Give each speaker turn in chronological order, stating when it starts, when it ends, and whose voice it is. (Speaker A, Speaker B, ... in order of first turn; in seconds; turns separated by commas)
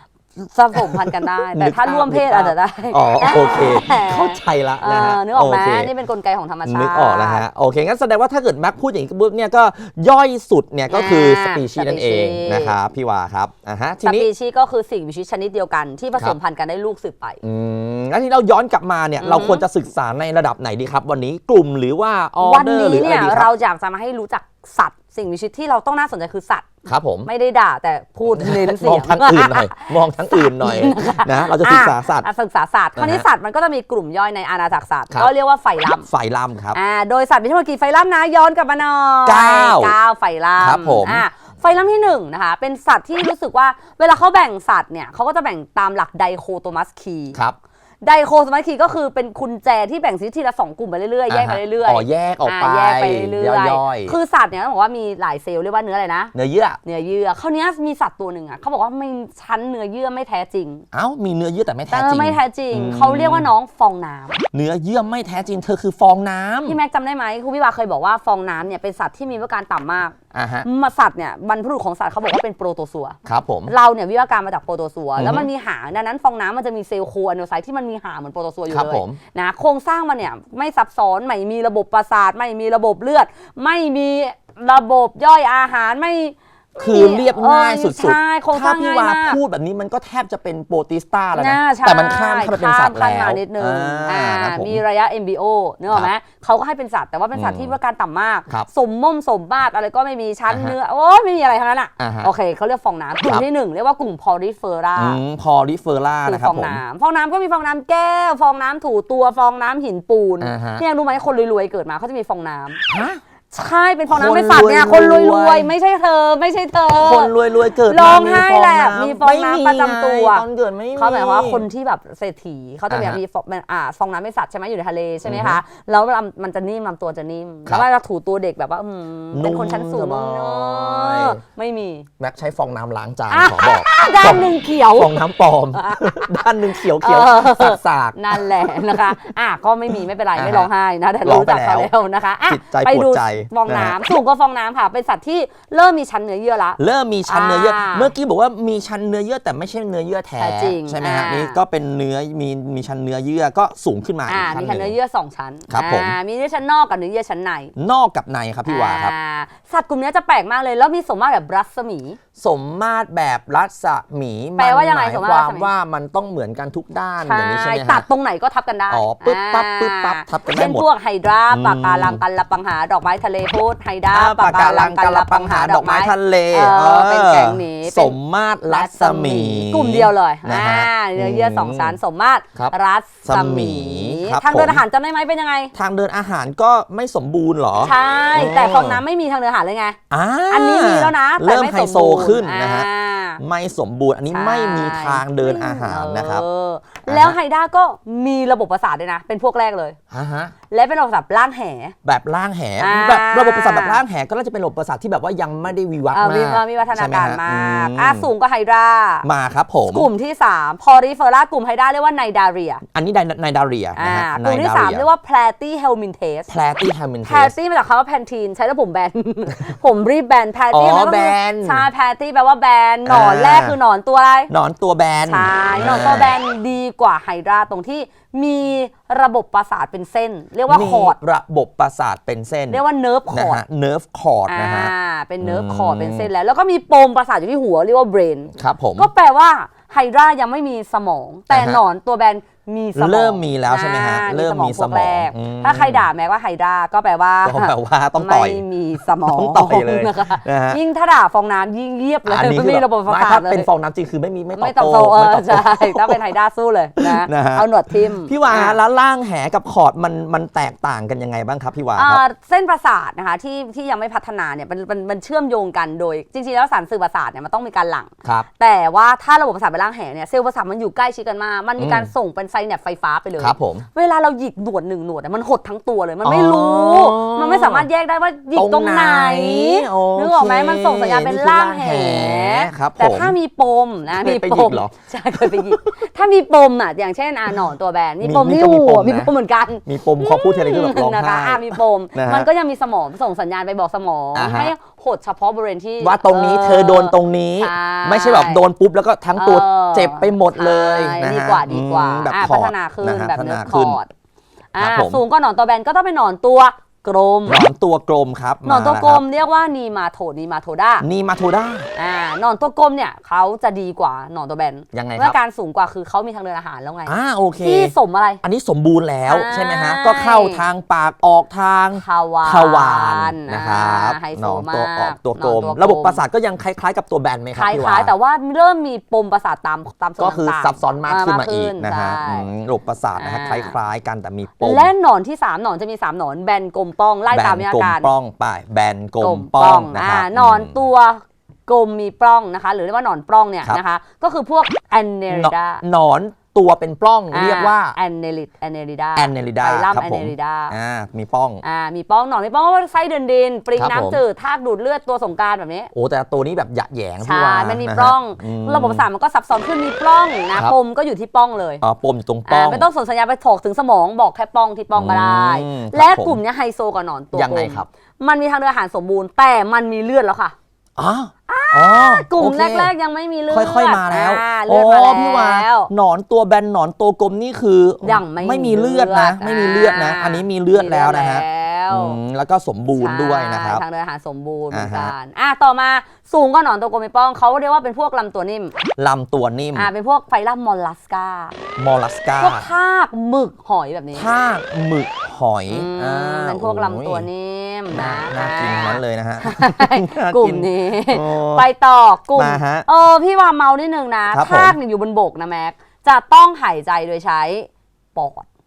Speaker A: 0.3-7.4, Speaker B: 0.7-5.9, Speaker B: 6.7-14.3, Speaker A: 10.9-12.7, Speaker A: 14.0-17.4, Speaker B: 17.4-23.5, Speaker A: 19.2-19.6, Speaker A: 22.4-26.7, Speaker B: 26.9-27.3, Speaker A: 27.2-36.1, Speaker B: 28.3-32.3, Speaker B: 33.0-33.2, Speaker B: 36.0-36.8, Speaker A: 36.7-47.4, Speaker B: 39.2-40.0, Speaker B: 40.6-41.2, Speaker A: 48.0-56.3, Speaker B: 51.3-54.2, Speaker B: 56.3-56.8, Speaker A: 56.8-60.8, Speaker B: 60.9-63.5, Speaker A: 61.9-64.4, Speaker B: 64.5-66.8, Speaker A: 66.7-89.4, Speaker B: 70.3-70.7, Speaker B: 73.2-73.7, Speaker B: 75.2-75.5, Speaker B: 78.7-79.2, Speaker B: 86.8-94.8, Speaker A: 91.3-105.2, Speaker B: 97.3-97.7, Speaker B: 100.5-100.7, Speaker B: 102.0-102.3, Speaker B: 105.0-106.8, Speaker A: 106.2-112.8, Speaker B: 110.4-110.8, Speaker B: 112.9-113.2, Speaker A: 113.5-132.1, Speaker B: 114.1-115.7, Speaker B: 116.9-121.7, Speaker B: 122.9-123.2, Speaker B: 125.2-125.6, Speaker B: 129.3-131.4, Speaker B: 132.2-139.2, Speaker A: 133.3-135.2, Speaker A: 135.7-148.1, Speaker B: 140.3-140.7, Speaker B: 141.2-141.9, Speaker B: 142.5-143.9, Speaker B: 146.8-154.9, Speaker A: 150.4-151.6, Speaker A: 154.3-157.7, Speaker B: 155.7-156.2, Speaker B: 157.8-159.1, Speaker A: 158.7-162.2, Speaker B: 162.4-168.1, Speaker A: 164.6-165.7, Speaker A: 167.2-178.2, Speaker B: 168.9-170.8, Speaker B: 171.5-172.2, Speaker B: 174.1-182.0, Speaker A: 178.7-185.7, Speaker B: 183.2-184.8, Speaker B: 185.7-189.0, Speaker A: 187.8-190.0, Speaker B: 190.1-192.9, Speaker A: 190.5-193.4, Speaker B: 193.4-196.4, Speaker A: 194.3-200.0, Speaker B: 197.1-197.4, Speaker B: 200.1-200.5, Speaker A: 200.7-201.9, Speaker B: 202.0-208.3, Speaker A: 202.8-204.0, Speaker A: 206.1-209.2, Speaker B: 209.2-210.1, Speaker A: 209.9-212.8, Speaker B: 212.9-215.1, Speaker A: 213.9-216.5, Speaker B: 216.5-217.5, Speaker A: 217.2-224.5, Speaker B: 220.7-221.9, Speaker B: 223.1-223.8, Speaker B: 224.5-226.3, Speaker A: 225.2-231.2, Speaker B: 230.7-236.3, Speaker A: 232.7-233.6, Speaker A: 234.5-253.7, Speaker B: 238.6-239.1, Speaker B: 241.5-241.8, Speaker B: 242.9-246.0, Speaker B: 247.4-248.6, Speaker B: 249.2-250.8, Speaker B: 252.2-256.2, Speaker A: 254.6-258.8, Speaker B: 257.0-262.2, Speaker A: 261.9-298.6, Speaker B: 271.8-272.1, Speaker B: 273.4-273.9, Speaker B: 276.2-277.9, Speaker B: 278.5-283.3, Speaker B: 284.1-285.8, Speaker B: 288.2-289.3, Speaker B: 289.8-292.5, Speaker B: 294.3-294.7, Speaker B: 296.0-304.0, Speaker A: 299.3-304.1, Speaker A: 304.7-307.6, Speaker B: 304.8-305.2, Speaker B: 307.5-309.2, Speaker A: 308.6-311.1, Speaker B: 311.0-311.9, Speaker A: 311.9-318.4, Speaker B: 314.9-315.4, Speaker B: 317.1-328.1, Speaker A: 319.3-320.6, Speaker A: 321.9-326.2, Speaker A: 327.6-332.5, Speaker B: 330.2-334.9, Speaker A: 333.2-333.7, Speaker A: 334.6-338.1, Speaker B: 337.3-340.8, Speaker A: 339.2-345.8, Speaker B: 345.3-347.9, Speaker A: 347.3-350.7, Speaker B: 349.1-351.6, Speaker A: 351.6-355.9, Speaker B: 353.8-354.2, Speaker B: 355.9-359.0, Speaker A: 357.2-361.8, Speaker B: 361.8-362.9, Speaker A: 362.5-370.5, Speaker B: 364.9-366.4, Speaker B: 367.3-367.9, Speaker B: 371.0-372.9, Speaker A: 371.5-375.9, Speaker B: 373.5-383.8, Speaker A: 378.0-382.2, Speaker A: 382.9-388.7, Speaker B: 384.7-385.1, Speaker B: 389.0-389.9, Speaker A: 389.8-391.6, Speaker B: 391.8-392.7, Speaker A: 392.4-394.3, Speaker B: 394.1-397.3, Speaker A: 395.7-408.4, Speaker B: 397.9-401.7, Speaker B: 402.3-402.9, Speaker B: 404.3-404.8